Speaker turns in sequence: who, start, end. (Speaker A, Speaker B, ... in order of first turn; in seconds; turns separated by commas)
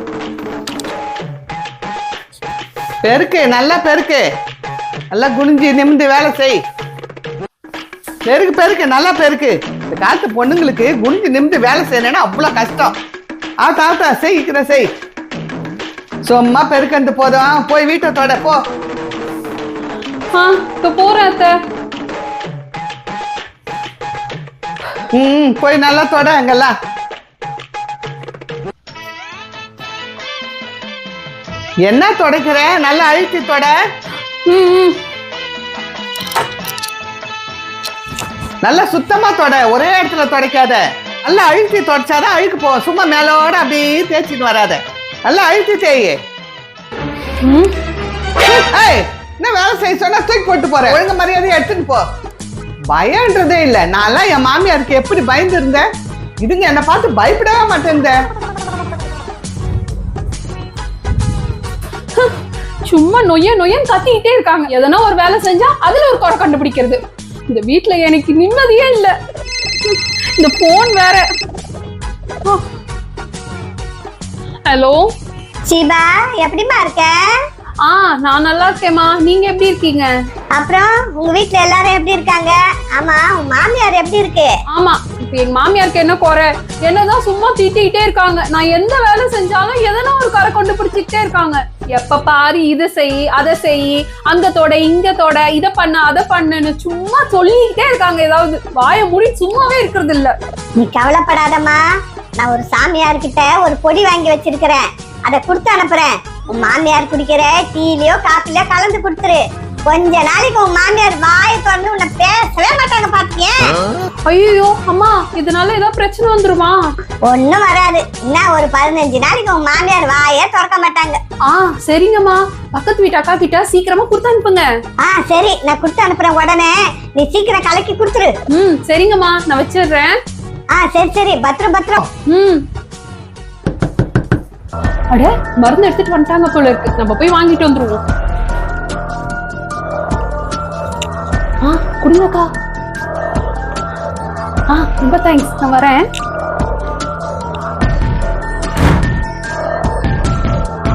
Speaker A: 3.0-4.3, Speaker A: 5.1-6.6, Speaker A: 8.2-12.9, Speaker A: 13.6-14.9, Speaker A: 16.2-18.6, Speaker B: 20.3-21.5, Speaker A: 25.1-26.7, Speaker A: 31.8-33.7, Speaker B: 34.5-35.0, Speaker A: 38.6-46.2, Speaker B: 47.4-47.7, Speaker A: 48.5-52.0, Speaker A: 52.9-55.9, Speaker A: 56.4-58.2, Speaker B: 62.9-69.1, Speaker B: 69.8-71.3, Speaker B: 74.7-75.1, Speaker C: 75.7-77.3, Speaker B: 77.8-80.1, Speaker C: 80.5-84.5, Speaker B: 84.7-100.3, Speaker C: 100.8-101.8, Speaker C: 102.4-113.8, Speaker B: 114.2-116.8, Speaker C: 117.2-121.2, Speaker B: 121.5-124.7, Speaker C: 125.0-128.3, Speaker B: 128.5-130.2, Speaker C: 130.7-132.0, Speaker B: 132.3-132.6, Speaker B: 135.1-138.0, Speaker B: 141.6-142.5, Speaker B: 144.7-146.1